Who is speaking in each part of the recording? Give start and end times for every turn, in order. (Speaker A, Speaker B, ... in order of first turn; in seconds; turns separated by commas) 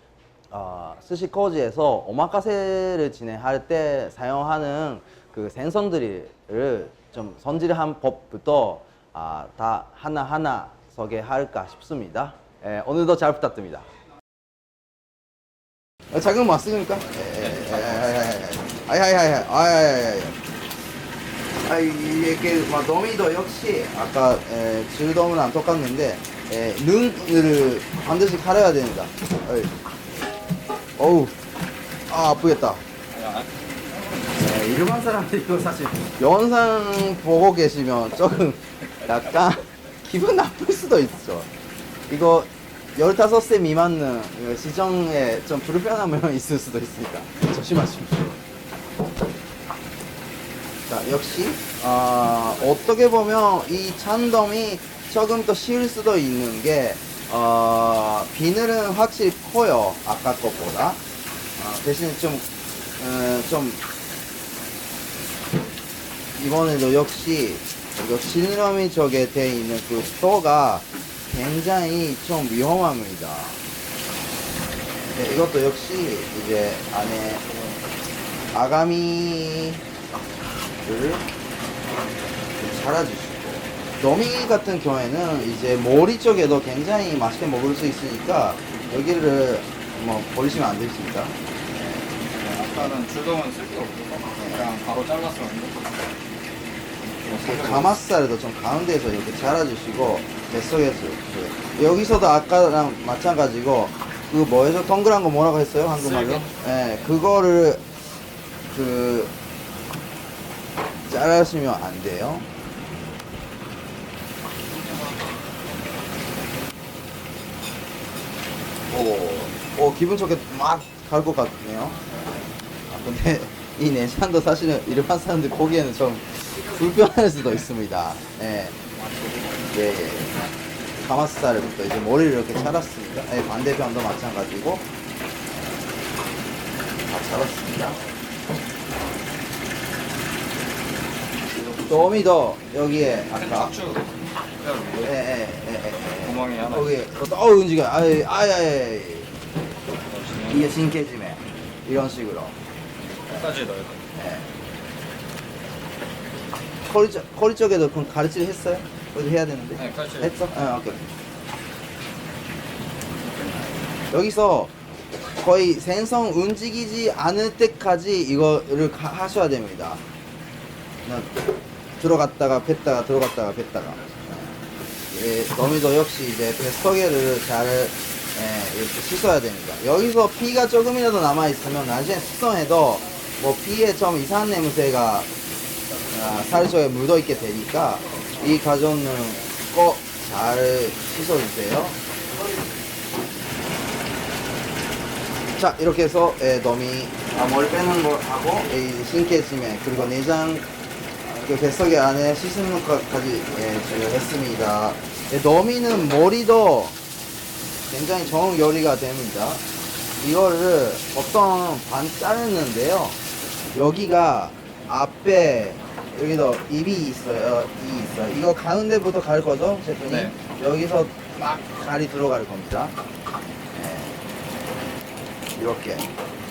Speaker A: 0.5-13.8, Speaker A: 16.1-20.4, Speaker A: 21.6-29.7, Speaker A: 31.0-31.3, Speaker A: 32.1-32.8, Speaker B: 33.1-34.2, Speaker A: 34.3-41.5, Speaker A: 42.1-48.4, Speaker A: 50.9-61.0, Speaker A: 61.6-63.8, Speaker A: 66.3-73.6, Speaker A: 75.1-77.5, Speaker A: 78.5-79.8, Speaker A: 80.8-81.2, Speaker A: 82.6-91.9, Speaker B: 92.2-96.0, Speaker A: 94.4-94.7, Speaker B: 97.2-97.9, Speaker A: 97.4-107.8, Speaker B: 106.2-106.6, Speaker A: 108.7-109.3, Speaker A: 111.1-112.5, Speaker A: 118.9-122.0, Speaker A: 122.9-128.8, Speaker A: 129.7-130.4, Speaker A: 131.0-134.9, Speaker A: 135.5-135.9, Speaker A: 137.1-138.0, Speaker B: 141.5-142.0, Speaker A: 141.8-143.9, Speaker B: 143.3-145.1, Speaker A: 145.0-149.3, Speaker B: 146.2-147.0, Speaker B: 150.1-150.7, Speaker A: 150.5-152.6, Speaker B: 153.3-154.0, Speaker A: 154.2-154.5, Speaker A: 156.9-161.1, Speaker B: 159.8-160.3, Speaker A: 163.2-164.8, Speaker A: 165.4-170.0, Speaker A: 171.0-171.5, Speaker A: 172.0-185.3, Speaker A: 186.1-192.0, Speaker A: 195.6-200.7, Speaker A: 201.2-207.0, Speaker A: 207.9-209.6, Speaker A: 210.2-213.2, Speaker A: 213.7-222.9, Speaker B: 220.1-220.3, Speaker A: 223.7-224.2, Speaker A: 225.6-226.1